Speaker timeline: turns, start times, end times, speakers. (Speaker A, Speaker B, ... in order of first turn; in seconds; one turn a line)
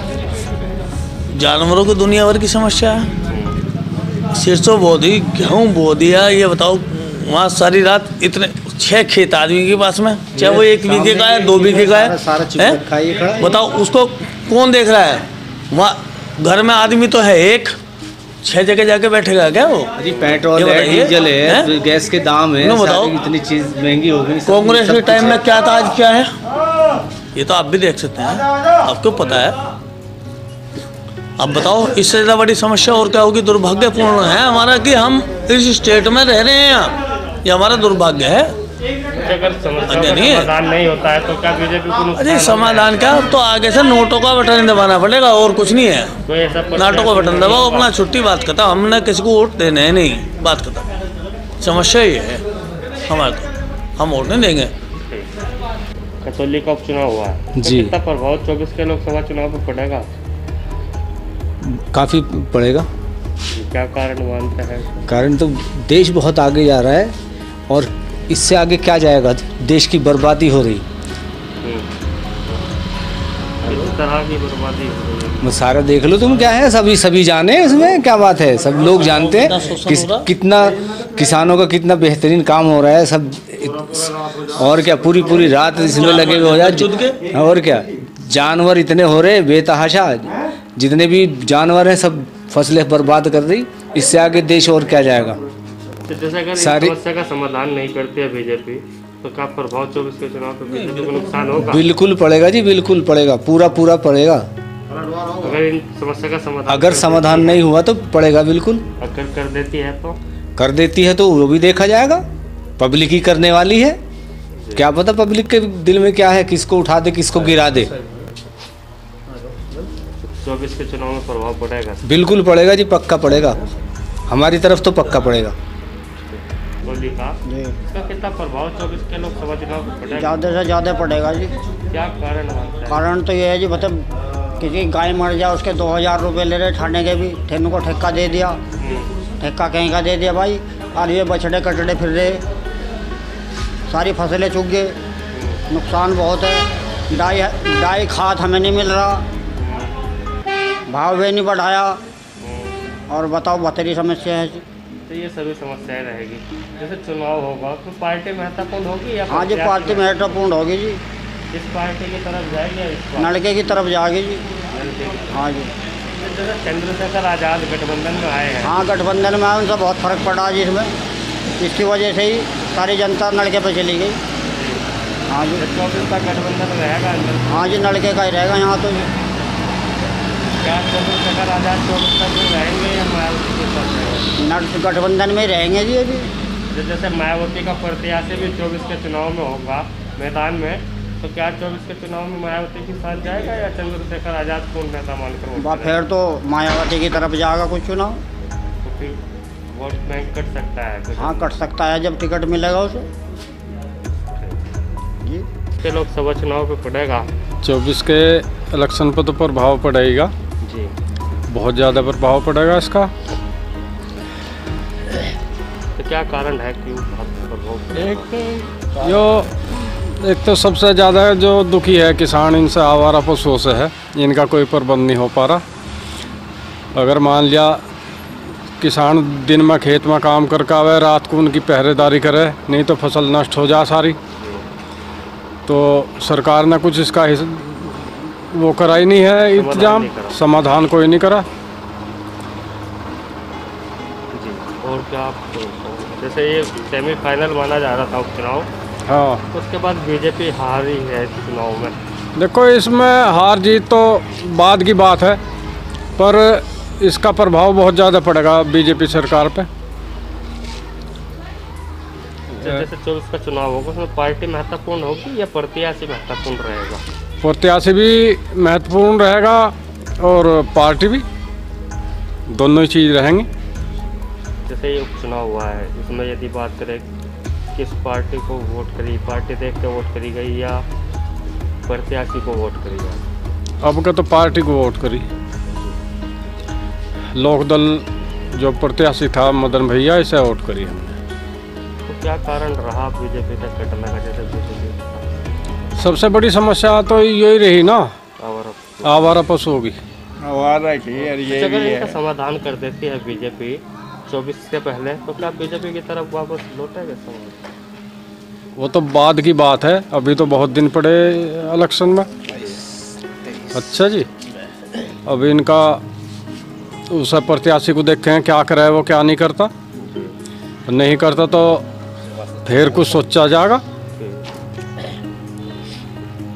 Speaker A: 1.3-3.1
Speaker B: 3.3-3.6
Speaker A: 4.4-12.8
Speaker C: 10.4-13.6
Speaker A: 13.4-17.8
Speaker A: 18.4-21.7
Speaker C: 20.0-25.4
Speaker A: 22.6-23.2
Speaker A: 24.4-26.3
Speaker A: 27.4-29.6
Speaker A: 31.4-38.5
Speaker B: 39.2-43.0
Speaker A: 39.9-40.5
Speaker A: 42.1-46.2
Speaker B: 46.3-47.9
Speaker A: 46.8-50.8
Speaker A: 51.6-52.4
Speaker A: 53.1-54.7
Speaker B: 55.0-55.3
Speaker B: 56.2-60.1
Speaker C: 57.5-58.0
Speaker C: 61.6-62.9
Speaker B: 63.5-65.0
Speaker C: 65.1-67.1
Speaker C: 67.7-70.8
Speaker B: 71.6-71.9
Speaker B: 73.6-75.5
Speaker C: 75.4-95.4
Speaker A: 78.8-80.2
Speaker A: 85.9-87.2
Speaker B: 96.0-101.9
Speaker C: 96.6-97.0
Speaker C: 101.6-104.5
Speaker B: 105.4-107.7
Speaker C: 106.7-108.8
Speaker B: 109.0-110.2
Speaker C: 110.6-112.2
Speaker C: 112.8-114.0
Speaker B: 114.6-114.9
Speaker C: 114.8-117.9
Speaker B: 120.3-122.0
Speaker C: 122.0-123.6
Speaker C: 124.3-125.5
Speaker B: 126.2-130.4
Speaker D: 130.2-131.5
Speaker B: 131.9-133.1
Speaker D: 132.9-134.1
Speaker D: 134.6-138.6
Speaker B: 138.8-139.1
Speaker D: 139.4-142.4
Speaker D: 143.9-144.9
Speaker B: 145.3-145.6
Speaker D: 145.7-149.2
Speaker B: 149.6-150.0
Speaker D: 150.9-152.0
Speaker B: 152.4-152.8
Speaker D: 153.1-154.6
Speaker B: 155.1-160.4
Speaker D: 159.3-161.0
Speaker B: 161.5-163.4
Speaker D: 163.2-164.5
Speaker B: 164.7-165.4
Speaker D: 165.3-165.7
Speaker B: 166.2-168.8
Speaker D: 168.6-170.9
Speaker D: 171.6-174.2
Speaker B: 174.5-174.8
Speaker D: 175.3-175.7
Speaker B: 175.6-177.9
Speaker D: 177.5-179.1
Speaker B: 180.6-184.3
Speaker D: 184.4-186.3
Speaker B: 186.7-196.0
Speaker D: 195.6-198.2
Speaker B: 198.8-201.5
Speaker D: 201.1-203.1
Speaker B: 205.8-207.3
Speaker E: 207.6-210.3
Speaker B: 210.6-210.9
Speaker E: 211.5-213.1
Speaker B: 216.0-218.3
Speaker F: 217.9-219.2
Speaker E: 219.0-225.6
Speaker E: 226.9-227.8
Speaker E: 228.8-234.2
Speaker B: 234.4-234.7
Speaker E: 235.7-241.5
Speaker B: 239.6-240.4
Speaker B: 244.3-248.7
Speaker E: 249.1-249.4
Speaker B: 249.5-252.0
Speaker E: 252.4-255.4
Speaker E: 256.2-259.7
Speaker B: 262.5-267.0
Speaker E: 267.4-271.2
Speaker E: 272.5-273.5
Speaker B: 274.7-277.1
Speaker B: 277.8-280.8
Speaker B: 281.9-283.2
Speaker E: 283.8-285.3
Speaker E: 287.3-291.2
Speaker B: 292.1-295.3
Speaker E: 296.0-298.1
Speaker B: 298.4-299.4
Speaker E: 299.0-300.0
Speaker F: 300.4-302.2
Speaker B: 301.2-307.6
Speaker E: 308.8-312.3
Speaker E: 313.7-314.3
Speaker E: 315.2-316.0
Speaker E: 317.1-319.7
Speaker B: 320.0-320.4
Speaker E: 320.9-321.9
Speaker E: 322.6-323.8
Speaker B: 324.2-324.4